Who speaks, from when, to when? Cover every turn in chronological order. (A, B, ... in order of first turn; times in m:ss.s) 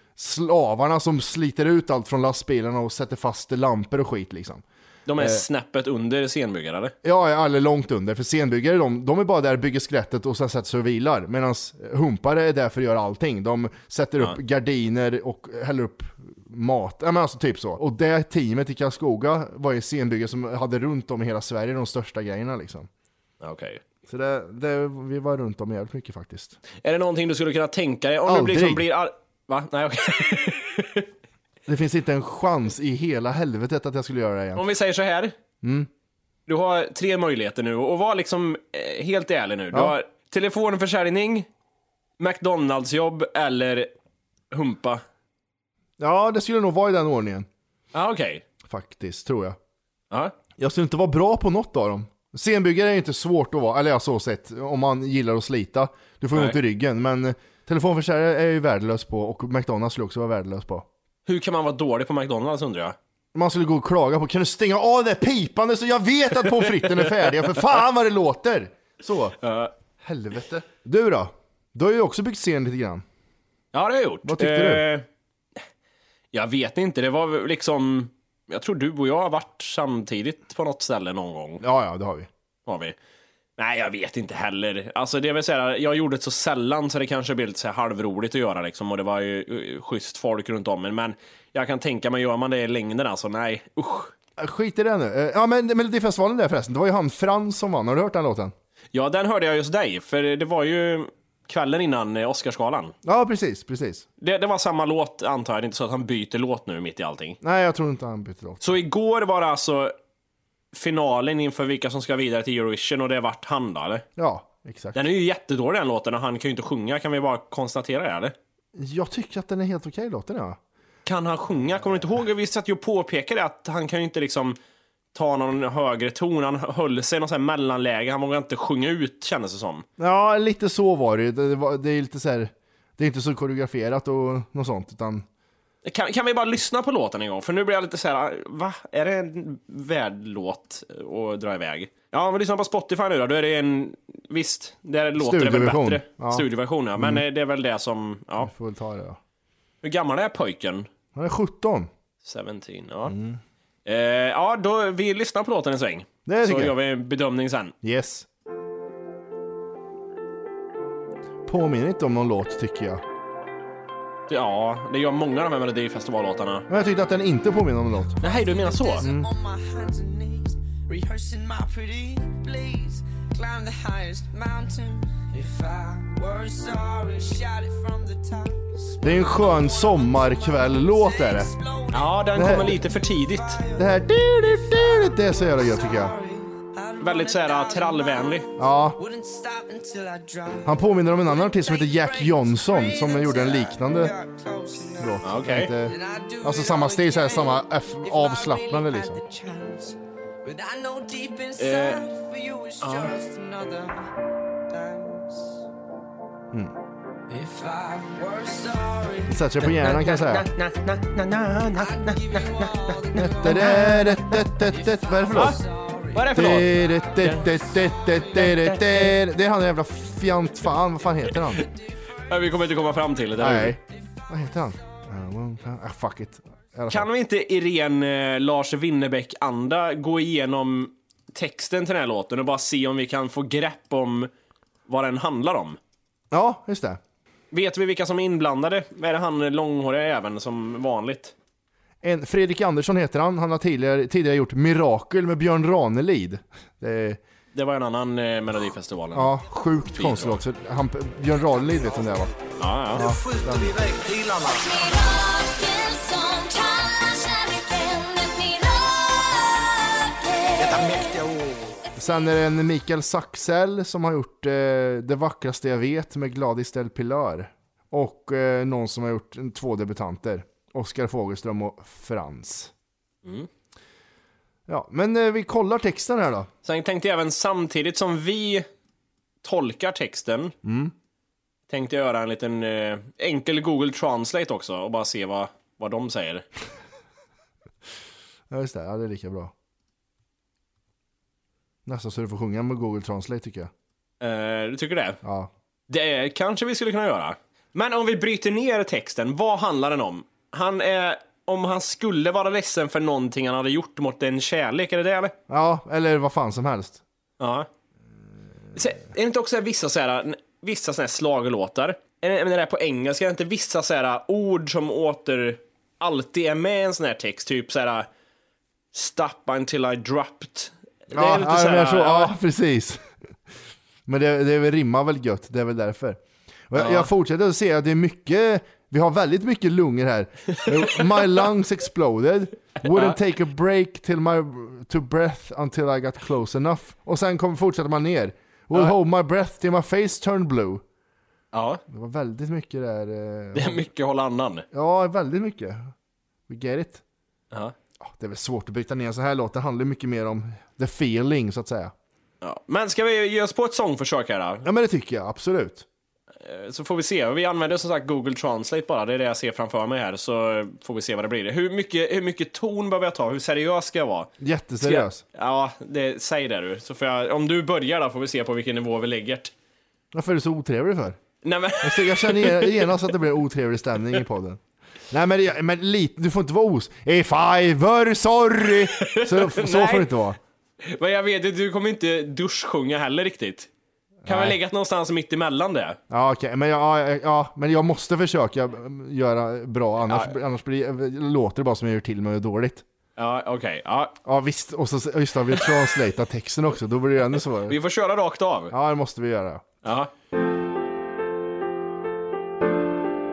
0:00.2-0:04.6 A
0:05.1-0:06.9 B
0:05.2-0:05.4 A
0:07.0-0:22.9 A
0:23.4-0:23.8 B
0:24.1-0:26.6 A
0:26.8-0:31.1 B
0:28.2-0:28.9 A
0:31.6-0:34.6 A
0:34.6-0:35.3 B
0:35.6-0:35.9 A
0:36.5-0:41.5 B
0:42.2-0:43.9 B
0:44.5-0:45.0 B
0:46.0-0:47.5 A
0:47.9-0:48.4 B
0:48.6-0:49.6 A
0:50.6-1:00.8 A
1:01.2-1:03.0 B
1:03.3-1:09.4 A
1:09.4-1:09.7 B
1:10.0-1:13.0 A
1:13.7-1:15.0 B
1:14.2-1:14.8 A
1:16.3-1:21.6 B
1:21.6-1:22.3 A
1:22.6-1:23.0 B
1:23.6-1:34.1 B
1:34.4-1:38.5 A
1:38.9-1:42.9 B
1:43.0-1:44.0 A
1:44.2-1:47.4 B
1:47.4-1:48.7 A
1:48.6-1:49.9 B
1:50.7-1:54.0 B
1:54.2-1:55.0 A
1:54.9-1:58.3 B
1:58.8-2:00.6 A
2:01.0-2:04.6 B
2:05.1-2:09.8 B
2:10.0-2:15.2 A
2:15.8-2:28.5 B
2:25.2-2:27.2 A
2:28.4-2:29.2 A
2:29.8-2:30.9 B
2:31.1-2:31.9 A
2:32.2-2:33.1 B
2:33.1-2:33.4 A
2:33.8-2:37.7 B
2:36.2-2:36.7 A
2:37.8-2:38.3 A
2:41.4-2:43.0 A
2:44.3-2:46.7 B
2:46.7-2:48.2 A
2:48.2-3:24.1 C
2:48.2-2:49.0 B
2:49.0-2:49.3 A
2:59.0-3:01.5 A
3:01.9-3:03.6 B
3:02.3-3:02.8 A
3:03.8-3:06.1 A
3:07.0-3:08.5 B
3:08.6-3:09.0 A
3:10.6-3:14.1 A
3:15.0-3:19.2 A
3:15.2-3:15.7 B
3:21.6-3:22.0 B
3:22.8-3:23.1 B
3:24.7-3:25.6 C
3:27.3-3:29.4 C
3:29.3-3:30.4 A
3:29.6-3:34.0 B
3:31.8-3:39.0 C
3:33.2-3:35.6 A
3:35.3-3:35.6 B
3:36.1-3:36.7 B
3:36.3-3:41.6 A
3:37.2-3:37.4 B
3:38.6-3:39.1 B
3:41.6-3:43.1 C
3:42.3-3:43.8 B
3:43.4-3:47.1 A
3:43.9-3:45.2 C
3:46.9-3:54.3 B
3:54.9-3:55.8 B
3:56.3-3:57.0 A
3:57.5-4:01.3 B
4:02.0-4:07.2 A
4:07.5-4:09.4 B
4:09.1-4:12.3 A
4:09.9-4:10.4 B
4:12.6-4:13.0 B
4:12.9-4:13.8 A
4:13.0-4:14.9 C
4:14.6-4:21.1 D
4:20.6-4:21.7 C
4:22.0-4:32.7 A
4:34.7-4:36.5 A
4:36.6-4:38.6 B
4:39.4-4:40.5 B
4:40.6-4:40.9 A
4:41.7-4:46.4 B
4:48.5-4:49.5 A
4:51.8-4:53.7 A
4:54.2-4:55.2 B
4:55.2-4:55.5 A
4:55.9-5:05.3 B
5:05.5-5:07.0 A
5:07.4-5:07.7 B
5:08.7-5:18.1 B
5:18.9-5:22.3 B
5:21.1-5:23.0 A
5:24.1-5:40.8 A
5:26.7-5:27.1 B
5:32.8-5:33.2 B
5:41.5-5:41.8 B
5:41.9-5:43.8 A
5:43.5-5:44.6 B
5:44.7-5:45.9 A
5:46.5-5:47.0 A
5:48.0-5:51.9 A
5:52.4-5:54.7 B
5:54.6-5:55.8 A
5:56.4-6:04.3 B
6:04.4-6:05.2 A
6:04.8-6:09.5 B
6:10.1-6:11.2 A
6:11.4-6:13.1 B
6:11.8-6:14.6 A
6:15.1-6:20.4 A
6:18.9-6:20.1 B
6:20.8-6:23.7 B
6:24.2-6:24.6 A
6:24.2-6:26.0 B
6:26.1-6:32.8 A
6:30.1-6:30.3 B
6:33.2-6:34.2 B
6:34.2-6:37.8 A
6:37.6-6:38.7 B
6:38.7-6:39.6 A
6:39.8-6:40.1 B